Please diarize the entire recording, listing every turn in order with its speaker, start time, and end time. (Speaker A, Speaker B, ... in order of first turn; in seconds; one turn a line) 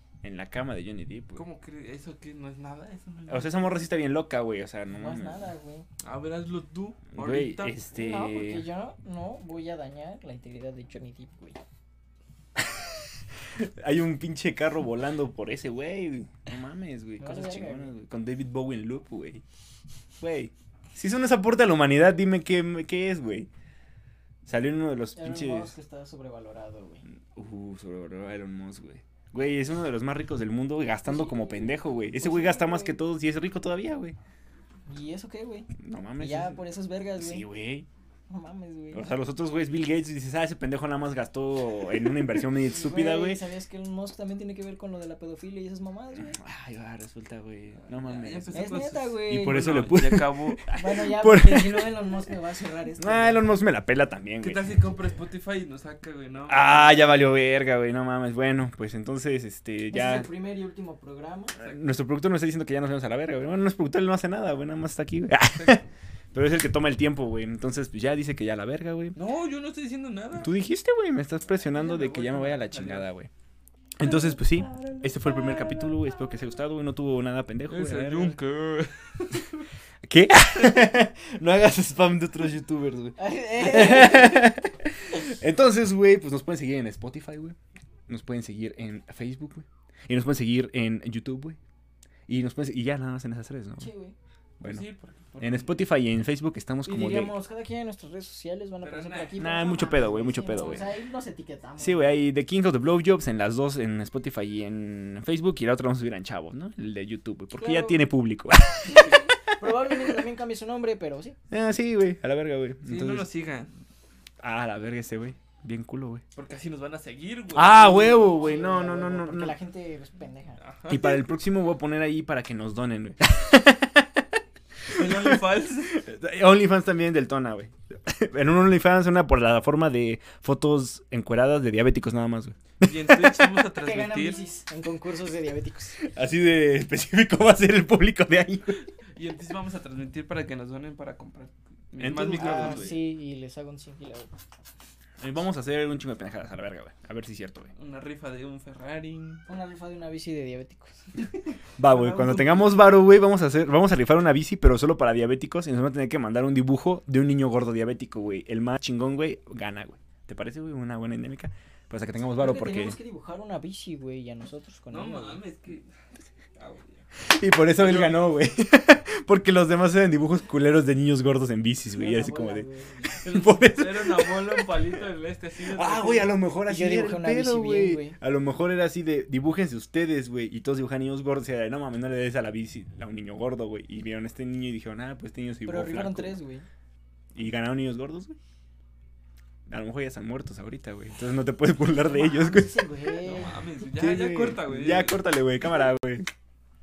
Speaker A: 0.2-1.4
Speaker B: 1.4-3.9
Speaker A: 3.3-5.5
Speaker C: 4.9-5.8
Speaker B: 6.0-7.8
Speaker A: 7.1-8.7
Speaker C: 7.9-11.6
Speaker A: 12.6-12.9
Speaker A: 13.6-19.4
Speaker C: 17.2-17.9
Speaker A: 20.2-23.5
Speaker A: 24.4-25.7
Speaker C: 25.1-27.0
Speaker A: 27.3-34.1
Speaker C: 31.1-33.0
Speaker C: 34.9-37.5
Speaker A: 35.8-36.6
Speaker A: 37.2-37.9
Speaker C: 38.3-39.1
Speaker A: 38.9-43.4
Speaker C: 42.6-46.4
Speaker A: 46.4-51.9
Speaker B: 47.8-50.6
Speaker C: 48.5-50.0
Speaker C: 50.7-53.4
Speaker A: 53.0-54.9
Speaker B: 54.4-57.3
Speaker A: 56.5-60.3
Speaker C: 59.9-61.5
Speaker A: 61.6-69.2
Speaker B: 69.1-70.5
Speaker A: 70.4-73.3
Speaker B: 71.6-73.1
Speaker A: 74.0-78.4
Speaker C: 74.0-76.3
Speaker B: 77.7-79.7
Speaker A: 80.0-87.6
Speaker C: 83.2-84.5
Speaker A: 88.1-91.6
Speaker A: 92.3-93.9
Speaker C: 93.8-94.2
Speaker A: 94.6-94.9
Speaker B: 94.6-95.9
Speaker A: 95.4-97.3
Speaker C: 96.8-102.2
Speaker B: 98.8-99.5
Speaker A: 99.4-100.8
Speaker A: 101.8-110.1
Speaker C: 107.6-107.9
Speaker C: 108.9-111.4
Speaker B: 109.0-109.2
Speaker A: 111.5-113.3
Speaker B: 112.8-113.7
Speaker A: 114.4-116.2
Speaker B: 116.3-118.2
Speaker A: 117.5-119.5
Speaker C: 117.8-120.6
Speaker B: 120.6-121.2
Speaker A: 120.9-124.2
Speaker B: 124.9-125.9
Speaker A: 124.9-133.6
Speaker B: 132.8-134.4
Speaker C: 133.8-136.0
Speaker A: 136.0-138.8
Speaker B: 139.1-142.9
Speaker A: 142.0-143.0
Speaker C: 142.3-144.3
Speaker A: 145.2-147.7
Speaker B: 147.8-149.4
Speaker C: 149.5-151.3
Speaker A: 151.8-163.0
Speaker C: 151.9-152.7
Speaker C: 162.2-165.4
Speaker B: 164.9-165.9
Speaker B: 166.6-167.0
Speaker A: 167.2-174.9
Speaker B: 167.8-168.3
Speaker C: 171.9-173.1
Speaker B: 173.2-176.3
Speaker A: 175.7-186.4
Speaker C: 176.7-178.2
Speaker C: 185.7-186.7
Speaker A: 187.3-188.4
Speaker A: 189.7-196.3
Speaker C: 192.0-193.6
Speaker B: 193.2-195.2